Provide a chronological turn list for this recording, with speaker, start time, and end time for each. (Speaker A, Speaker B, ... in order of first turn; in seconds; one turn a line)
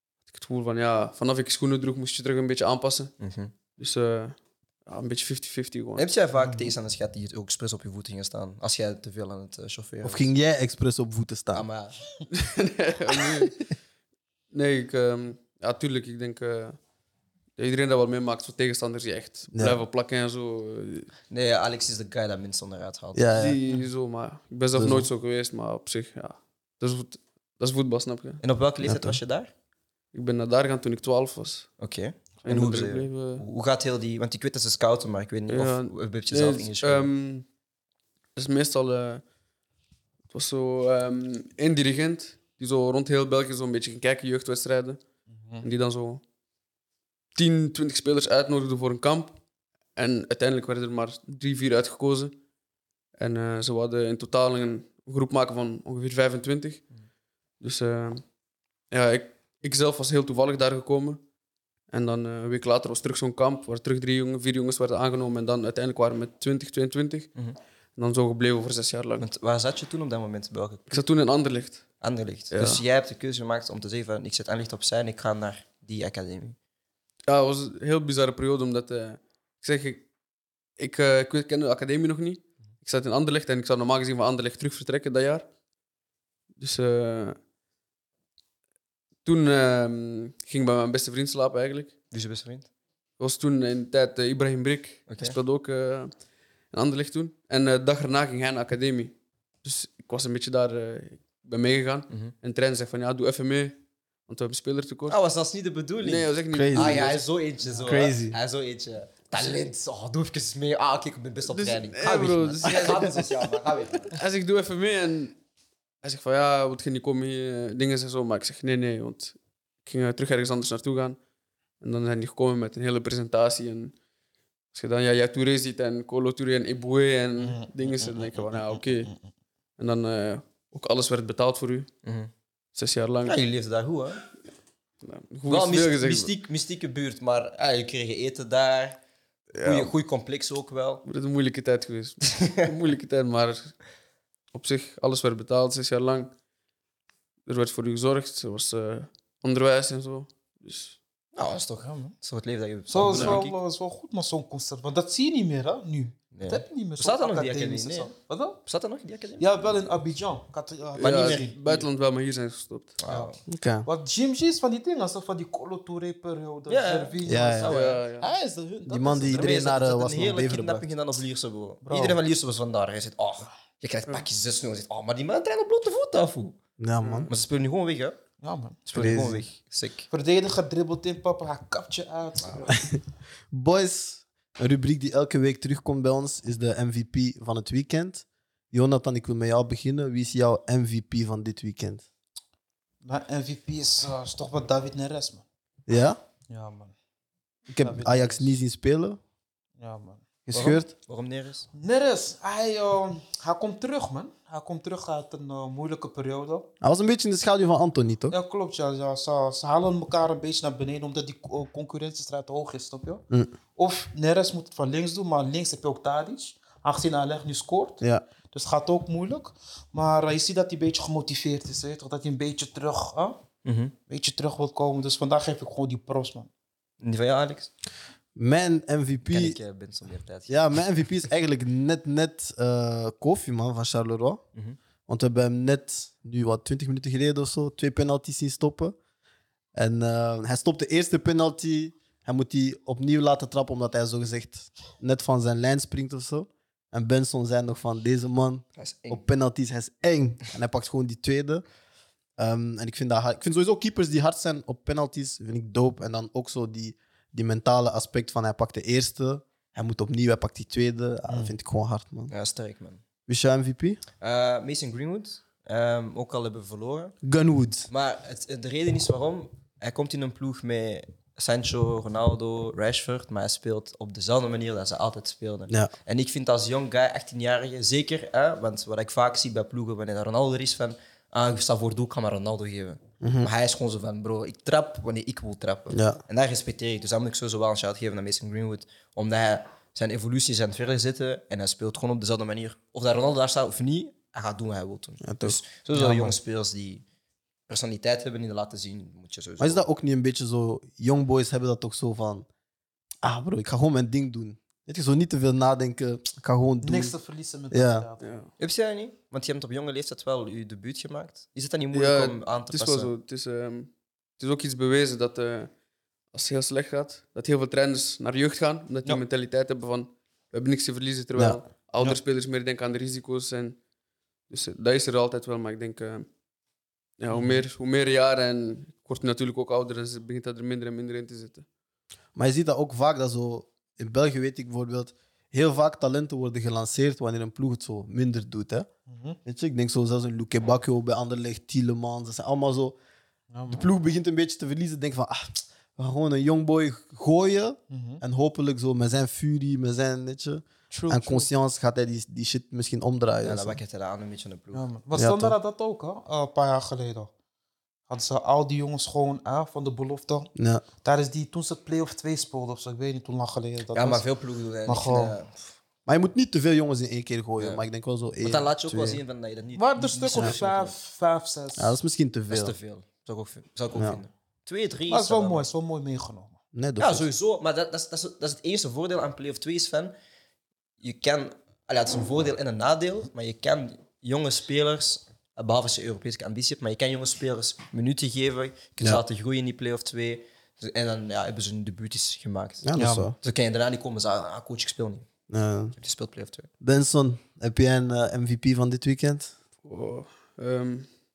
Speaker A: 0.3-3.1
Speaker B: 3.2-3.5
Speaker A: 3.8-6.1
Speaker B: 6.0-10.3
Speaker C: 6.4-6.7
Speaker D: 10.0-11.7
Speaker B: 11.5-12.0
Speaker A: 12.3-13.7
Speaker A: 14.5-16.8
Speaker A: 17.6-21.1
Speaker D: 19.5-19.8
Speaker B: 21.3-23.3
Speaker D: 23.1-23.6
Speaker A: 23.4-28.4
Speaker D: 24.8-25.1
Speaker B: 28.4-29.5
Speaker D: 28.8-29.2
Speaker A: 30.1-31.7
Speaker B: 31.8-37.1
Speaker A: 32.4-33.4
Speaker A: 35.5-37.4
Speaker A: 38.4-39.2
Speaker A: 40.3-45.0
Speaker C: 45.3-45.7
Speaker A: 45.6-46.2
Speaker A: 47.3-49.4
Speaker A: 50.0-52.3
Speaker A: 53.2-56.8
Speaker A: 57.6-58.2
Speaker A: 58.9-61.2
Speaker A: 61.9-67.3
Speaker A: 68.0-69.2
Speaker B: 69.2-71.0
Speaker A: 70.9-71.8
Speaker B: 72.0-76.6
Speaker A: 72.5-72.8
Speaker A: 77.3-80.0
Speaker A: 80.8-85.4
Speaker A: 86.6-87.4
Speaker A: 89.2-91.9
Speaker B: 92.1-92.7
Speaker A: 93.2-96.1
Speaker B: 95.1-95.4
Speaker A: 96.7-105.2
Speaker B: 105.1-114.1
Speaker A: 106.0-107.3
Speaker D: 106.5-107.0
Speaker D: 107.9-108.4
Speaker A: 111.5-113.3
Speaker D: 112.7-113.1
Speaker A: 114.0-115.3
Speaker A: 116.0-121.2
Speaker A: 121.8-123.9
Speaker A: 124.7-129.1
Speaker C: 127.4-128.1
Speaker C: 128.7-129.1
Speaker A: 129.8-131.9
Speaker B: 132.0-132.3
Speaker A: 132.8-133.4
Speaker B: 133.2-134.2
Speaker A: 135.0-136.3
Speaker B: 135.5-139.0
Speaker A: 139.5-139.9
Speaker B: 139.6-141.0
Speaker A: 141.1-143.8
Speaker B: 142.4-142.7
Speaker A: 144.5-146.3
Speaker A: 147.4-151.0
Speaker B: 151.3-153.6
Speaker C: 151.8-152.1
Speaker C: 152.9-158.6
Speaker A: 153.1-153.4
Speaker B: 156.3-158.1
Speaker B: 158.7-159.7
Speaker C: 159.4-161.6
Speaker B: 161.0-161.8
Speaker A: 161.0-163.0
Speaker B: 163.0-163.4
Speaker D: 163.5-163.9
Speaker C: 163.8-169.6
Speaker B: 166.7-168.0
Speaker D: 167.2-167.7
Speaker A: 167.7-168.3
Speaker D: 168.9-170.9
Speaker B: 169.2-176.6
Speaker C: 171.8-172.2
Speaker D: 176.8-177.3
Speaker A: 177.0-177.3
Speaker B: 177.3-178.2
Speaker C: 178.4-178.8
Speaker B: 178.9-180.1
Speaker D: 178.9-179.4
Speaker C: 180.1-182.8
Speaker D: 183.5-192.0
Speaker C: 193.0-195.4
Speaker D: 195.9-196.2
Speaker C: 196.5-196.9
Speaker D: 197.7-199.2
Speaker C: 197.8-198.6
Speaker C: 199.8-200.2
Speaker D: 200.5-200.9
Speaker B: 200.5-201.7
Speaker C: 201.7-206.7
Speaker D: 206.8-208.4
Speaker C: 208.3-213.2
Speaker C: 213.8-223.4
Speaker B: 223.6-223.9
Speaker C: 224.1-226.5
Speaker B: 227.0-227.7
Speaker D: 228.4-229.6
Speaker B: 229.3-230.8
Speaker D: 230.5-234.4
Speaker D: 235.1-238.9
Speaker D: 239.8-251.6
Speaker B: 248.8-249.2
Speaker D: 252.4-262.3
Speaker C: 261.3-261.6
Speaker B: 262.3-263.0
Speaker D: 263.3-264.0
Speaker B: 264.2-267.1
Speaker D: 267.2-267.9
Speaker B: 267.9-297.0
Speaker D: 283.2-283.5
Speaker D: 285.9-286.2
Speaker D: 295.2-296.1
Speaker C: 295.9-296.3
Speaker B: 297.7-299.8
Speaker D: 299.6-302.5
Speaker D: 303.2-307.1
Speaker C: 306.8-308.4
Speaker D: 307.7-308.1
Speaker A: 308.2-308.5
Speaker B: 308.6-313.1
Speaker A: 311.9-315.7
Speaker A: 316.3-323.8
Speaker A: 324.5-326.3
Speaker A: 327.2-331.6
Speaker C: 327.3-327.6
Speaker D: 332.4-338.9
Speaker C: 339.1-339.4
Speaker D: 339.4-343.0
Speaker C: 343.5-343.9
Speaker D: 343.7-353.8
Speaker C: 347.9-348.2
Speaker C: 350.9-351.5
Speaker B: 353.4-354.9
Speaker C: 354.7-357.3
Speaker D: 355.1-355.6
Speaker C: 358.1-360.5
Speaker D: 360.5-360.8
Speaker C: 361.0-364.2
Speaker B: 363.9-365.6
Speaker C: 364.9-365.4
Speaker D: 366.1-369.2
Speaker B: 368.4-370.9
Speaker C: 369.8-371.9
Speaker D: 371.8-372.8
Speaker B: 372.5-375.7
Speaker C: 375.1-376.6
Speaker D: 376.7-377.3
Speaker B: 377.0-380.1
Speaker B: 381.0-395.3
Speaker D: 392.8-393.4
Speaker C: 393.0-393.3
Speaker D: 395.5-395.9
Speaker B: 396.0-396.7
Speaker D: 396.8-399.5
Speaker A: 399.9-401.1